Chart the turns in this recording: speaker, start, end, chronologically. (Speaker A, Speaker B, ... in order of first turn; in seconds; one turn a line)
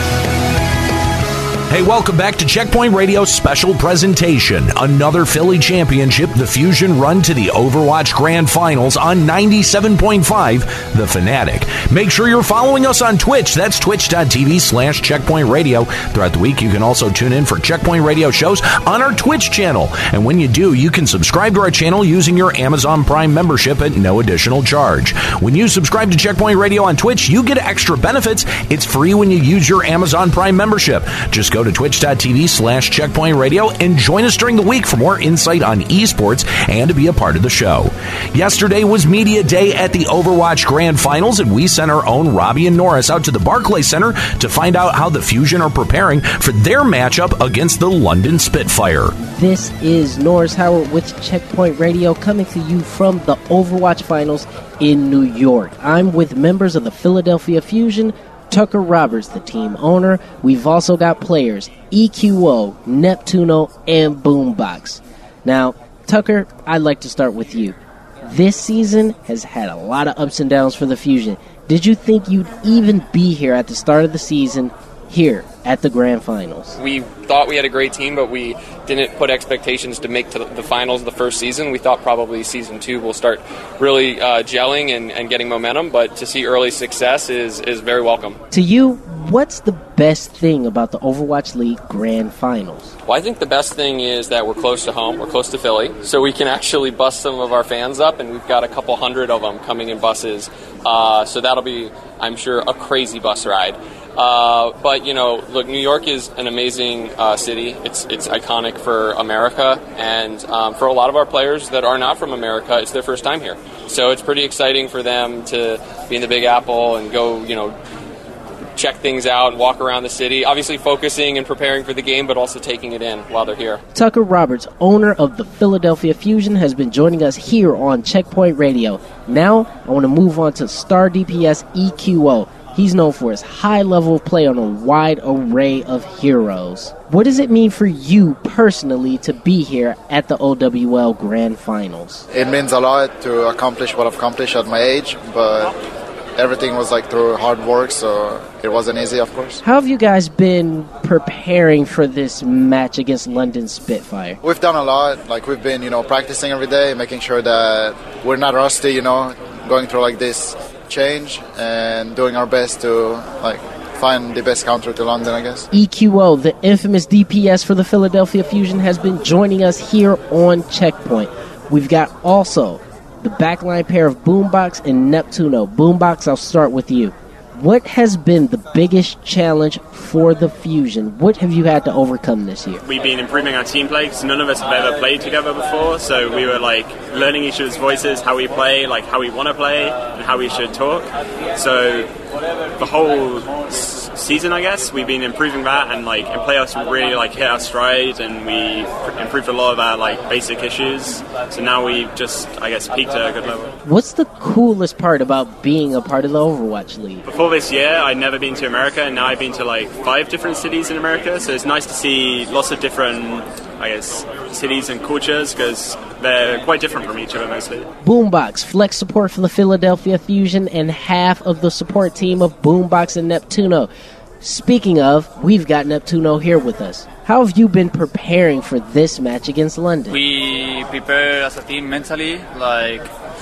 Speaker A: 1.7-49.1
Speaker B: 49.2-76.8
Speaker C: 76.8-88.4
Speaker B: 88.5-92.9
Speaker C: 93.0-117.7
Speaker C: 118.8-123.8
Speaker B: 123.9-142.2
Speaker D: 142.3-145.7
Speaker D: 146.3-149.6
Speaker B: 149.6-154.4
Speaker D: 154.4-165.7
Speaker B: 165.7-182.8
Speaker E: 182.8-192.1
Speaker E: 192.8-203.7
Speaker B: 203.8-207.2
Speaker E: 207.2-217.9
Speaker B: 218.0-223.9
Speaker B: 224.4-230.2
Speaker F: 230.1-233.1